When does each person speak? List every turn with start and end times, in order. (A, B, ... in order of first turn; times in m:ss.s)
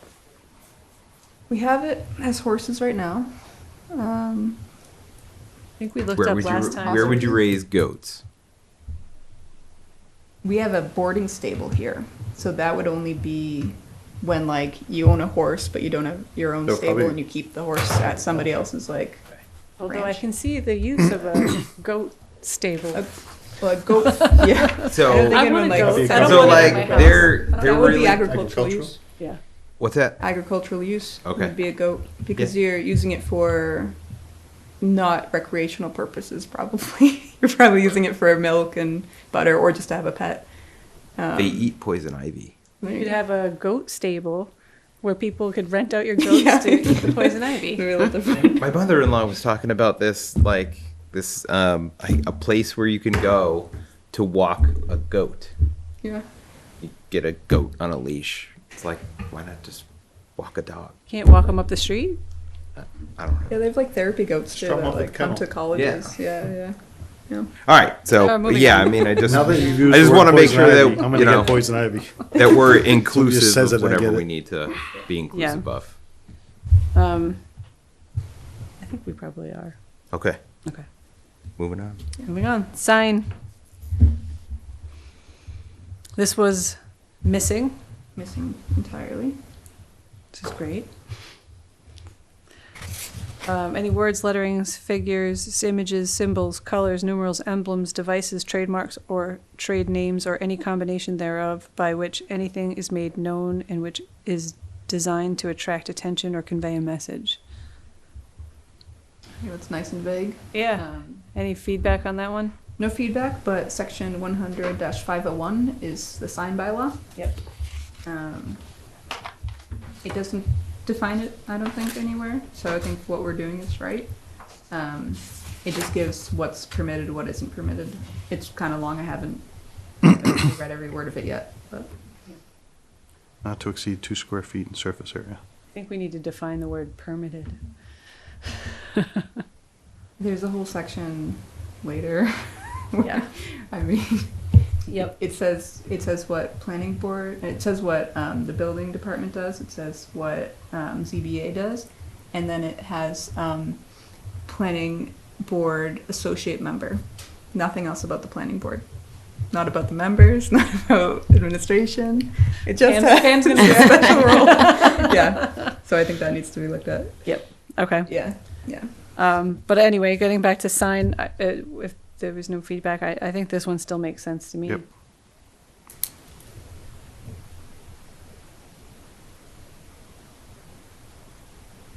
0:01.5-0:04.7 A
0:05.8-0:07.4 B
0:06.1-0:08.2 C
0:10.4-0:20.2 A
0:16.6-0:18.6 D
0:19.8-0:23.6 B
0:22.9-0:29.2 A
0:24.9-0:25.4 C
0:25.1-0:27.5 D
0:25.3-0:28.0 B
0:26.1-0:28.4 C
0:28.1-0:29.0 D
0:29.8-0:30.6 C
0:30.2-0:34.2 A
0:31.2-0:32.5 C
0:34.8-0:41.7 A
0:41.3-0:42.5 C
0:42.8-0:43.2 A
0:42.9-0:48.1 B
0:46.2-0:48.7 A
0:48.6-0:55.5 C
0:56.0-0:56.3 A
0:56.8-1:01.0 C
1:01.1-1:02.2 B
1:02.8-1:03.6 C
1:03.5-1:07.5 A
1:04.5-1:05.6 D
1:05.7-1:06.1 C
1:07.6-1:11.7 C
1:08.1-1:09.8 B
1:09.2-1:14.3 D
1:12.2-1:16.0 C
1:15.3-1:16.2 B
1:16.9-1:17.4 B
1:18.8-1:20.0 B
1:20.1-1:20.4 C
1:21.6-1:22.0 C
1:22.2-1:23.3 B
1:26.1-1:27.8 B
1:28.1-1:29.4 A
1:30.3-1:31.1 B
1:33.4-1:47.4 B
1:49.4-1:51.2 A
1:50.5-1:52.6 B
1:52.8-1:57.5 A
1:57.1-1:57.4 B
1:58.0-1:58.7 A
2:00.0-2:12.0 A
2:13.4-2:15.4 D
2:15.7-2:18.5 B
2:20.2-2:49.0 A
2:23.0-2:23.3 B
2:24.8-2:25.2 B
2:42.8-2:45.1 B
2:47.2-2:54.9 B